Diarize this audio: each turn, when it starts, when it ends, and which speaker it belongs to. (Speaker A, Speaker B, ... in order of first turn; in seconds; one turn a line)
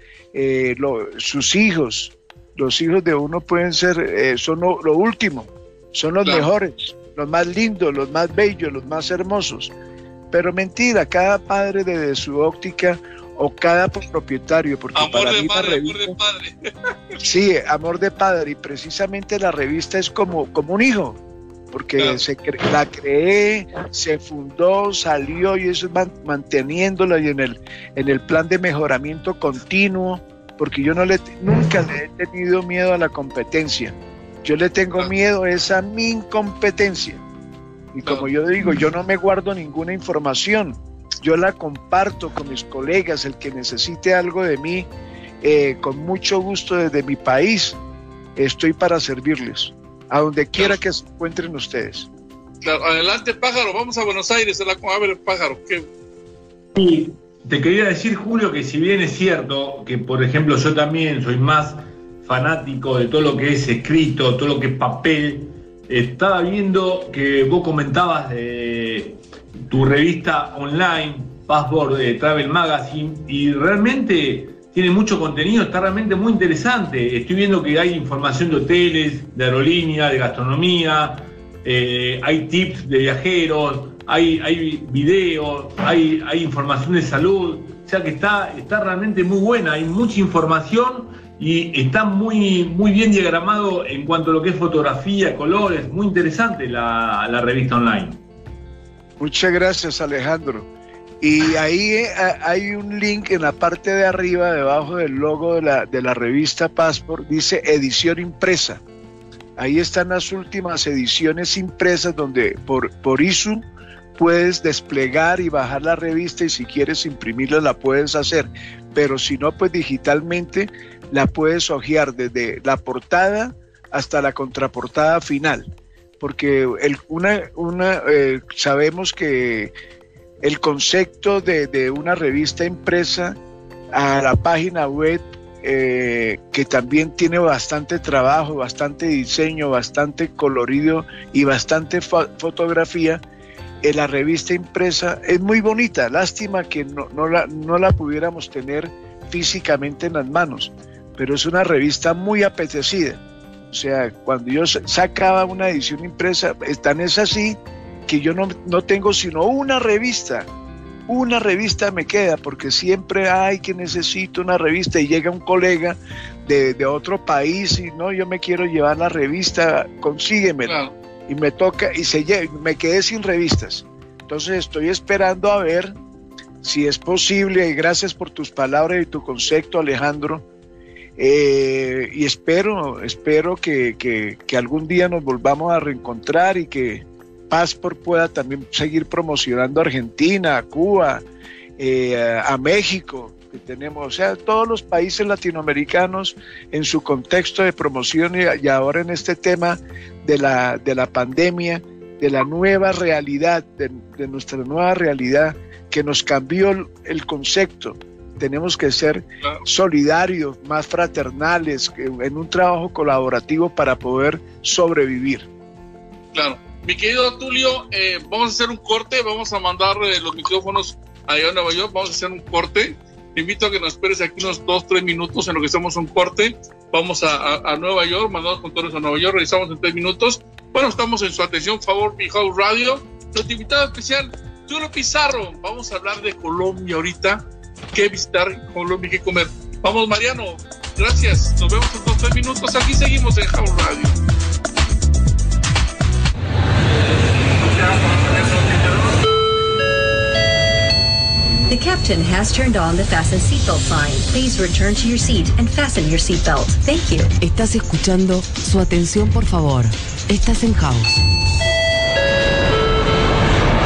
Speaker A: 0.3-9.7
Speaker A: 10.3-16.1
Speaker B: 14.9-17.2
Speaker A: 17.2-21.2
Speaker A: 21.7-37.2
Speaker B: 22.0-22.2
Speaker A: 37.9-44.9
Speaker A: 45.4-47.8
Speaker A: 48.4-52.1
Speaker B: 52.6-55.9
Speaker C: 56.7-98.2
Speaker A: 99.2-100.7
Speaker A: 101.2-108.8
Speaker A: 109.6-113.6
Speaker A: 114.2-129.7
Speaker A: 130.4-133.4
Speaker A: 133.9-143.2
Speaker A: 143.8-160.5
Speaker A: 161.1-175.9
Speaker B: 170.6-170.9
Speaker A: 176.6-180.4
Speaker A: 181.2-191.2
Speaker A: 191.8-215.5
Speaker B: 216.3-244.2
Speaker D: 251.7-257.3
Speaker E: 257.4-261.2